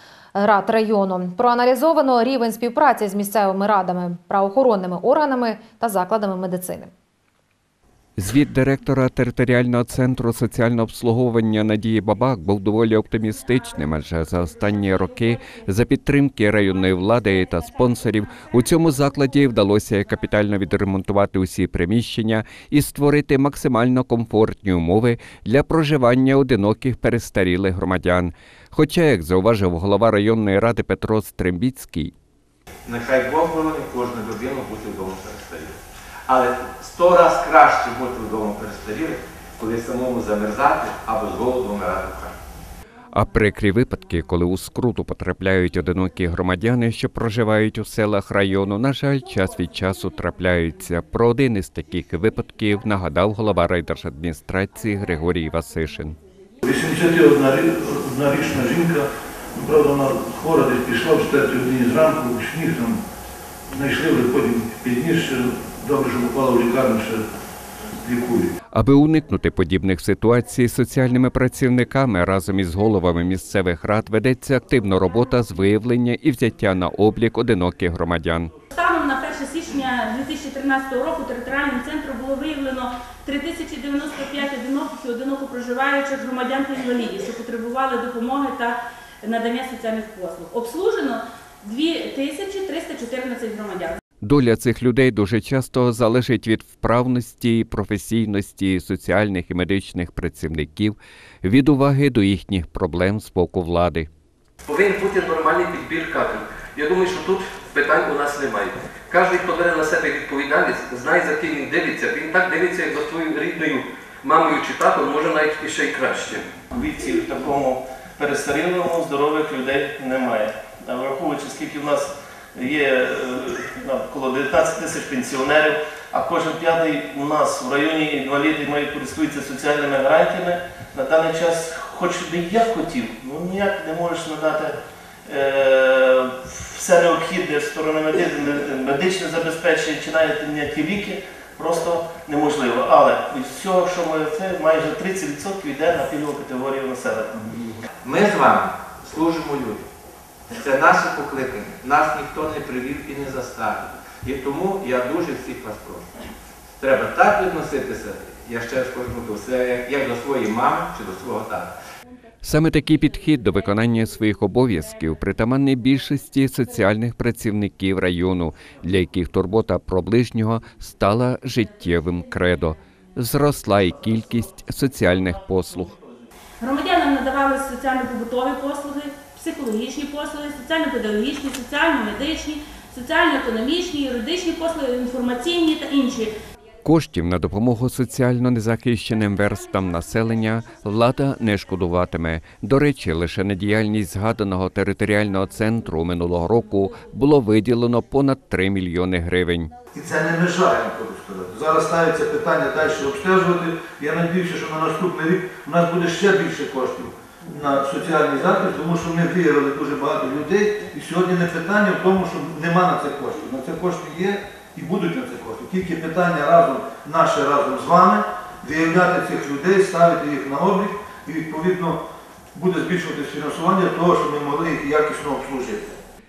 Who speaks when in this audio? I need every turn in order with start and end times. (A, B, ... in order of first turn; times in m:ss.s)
0:00.4-0:06.9 A
0:08.2-0:32.1 B
0:32.8-0:42.3 C
0:43.1-0:56.2 B
0:56.6-1:03.0 D
1:03.7-1:07.2 D
1:08.0-1:08.5 D
1:08.7-1:18.5 B
1:18.7-1:34.0 E
1:34.2-1:44.1 B
1:44.6-1:56.5 F
1:56.7-2:14.7 G
2:15.2-2:27.8 G
2:28.0-2:29.9 C
2:30.5-2:36.1 C
2:36.8-2:41.7 C
2:42.4-2:56.0 B
2:56.6-3:06.3 E
3:06.8-3:19.7 B
3:19.9-3:42.0 D
3:42.5-3:45.9 D